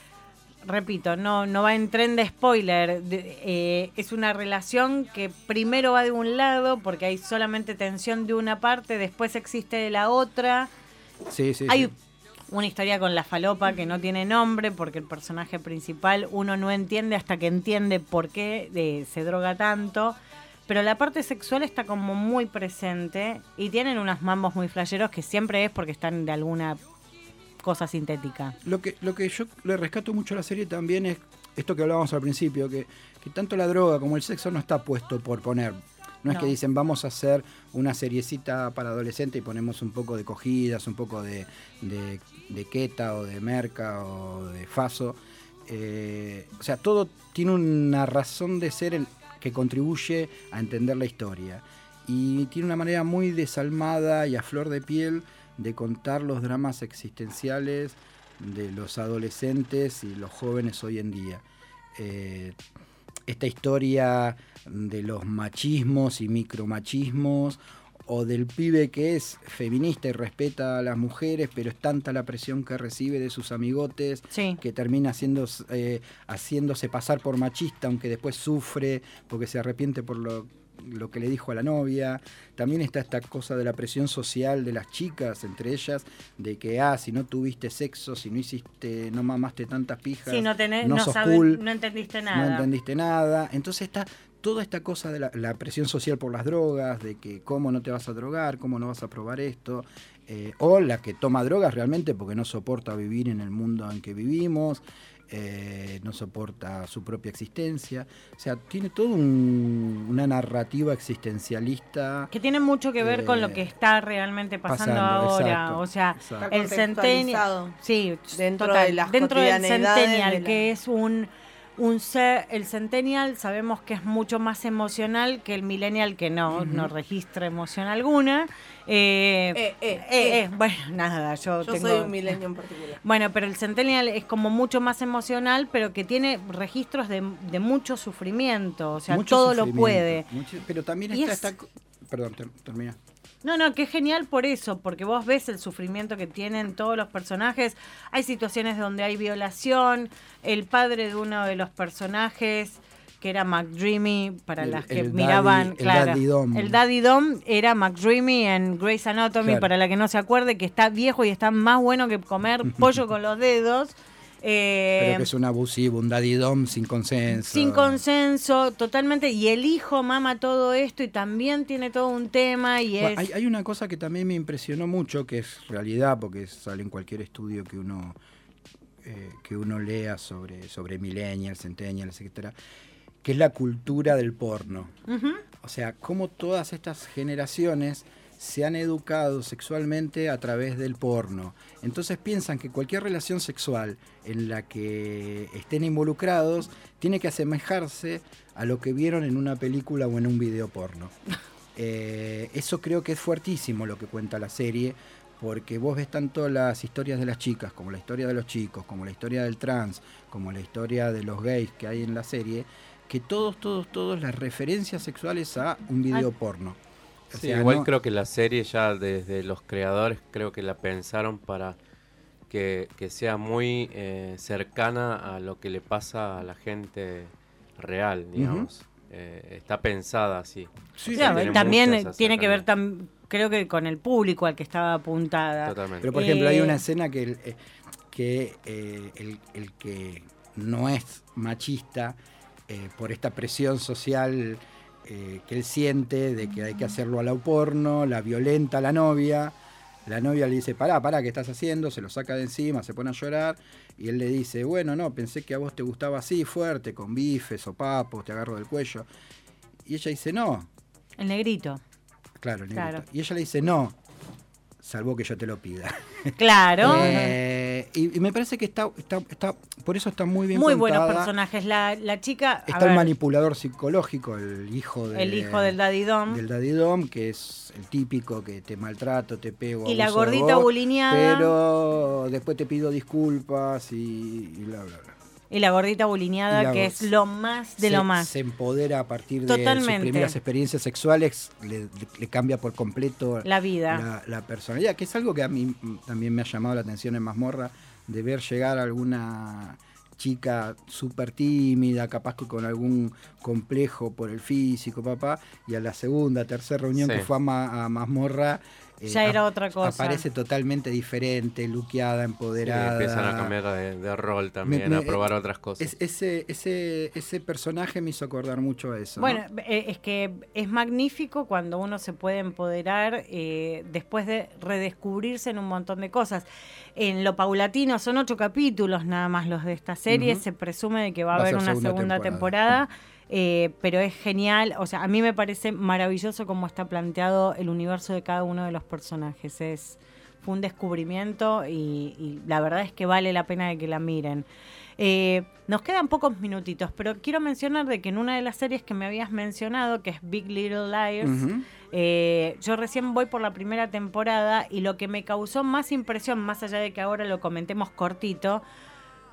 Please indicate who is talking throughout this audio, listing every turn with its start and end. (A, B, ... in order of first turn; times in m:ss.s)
0:00.6-0:10.7 A
0:11.3-0:11.9 B
0:11.7-0:11.9 A
0:12.5-0:20.2 A
0:20.7-0:26.8 A
0:27.6-0:28.6 A
0:28.6-1:01.4 B
1:01.9-1:02.6 B
1:03.3-1:31.6 B
1:14.3-1:14.6 A
1:30.3-1:32.7 A
1:32.3-1:52.3 B
1:52.3-2:12.2 A
1:53.0-1:53.6 B
1:54.7-1:56.5 B
1:56.4-1:57.8 C
1:58.3-2:00.6 C
2:06.5-2:06.9 B
2:09.5-2:10.4 C
2:11.6-2:13.0 C
2:13.0-2:20.2 A
2:19.1-2:23.0 B
2:21.1-2:21.4 A
2:23.4-2:45.3 A
2:34.6-2:36.8 B
2:39.4-2:39.7 B
2:42.7-2:42.9 B
2:45.0-2:48.0 B
2:47.4-2:53.2 A
2:53.0-2:58.2 B
2:59.0-3:02.5 B
3:03.2-3:05.0 B
3:05.1-3:05.4 A
3:05.6-3:21.1 B
3:21.7-3:36.8 B
3:37.3-3:37.9 B
3:37.3-3:41.8 D
3:42.5-3:52.6 D
3:48.4-3:48.7 B
3:51.0-3:51.8 B
3:51.1-3:56.8 A
3:55.6-3:56.1 D
3:56.0-4:09.5 B
4:10.0-4:19.1 B
4:19.8-4:20.7 B
4:21.2-4:21.8 A
4:22.4-4:24.0 B
4:22.7-4:23.0 A
4:24.8-4:31.3 B
4:26.4-4:27.3 A
4:30.5-4:33.1 A
4:32.6-4:45.1 B
4:35.1-4:36.4 A
4:39.8-4:41.5 A
4:45.5-4:48.3 A
4:46.5-4:47.1 B
4:47.8-5:13.5 B
4:49.4-4:50.4 A
4:53.4-4:54.0 A
5:07.0-5:07.3 D
5:09.0-5:10.2 A
5:12.6-5:15.9 D
5:14.6-5:15.2 B
5:15.8-5:19.4 B
5:19.2-5:44.4 A
5:30.1-5:30.4 B
5:31.3-5:32.5 B
5:45.0-5:58.6 A
5:51.2-5:51.6 B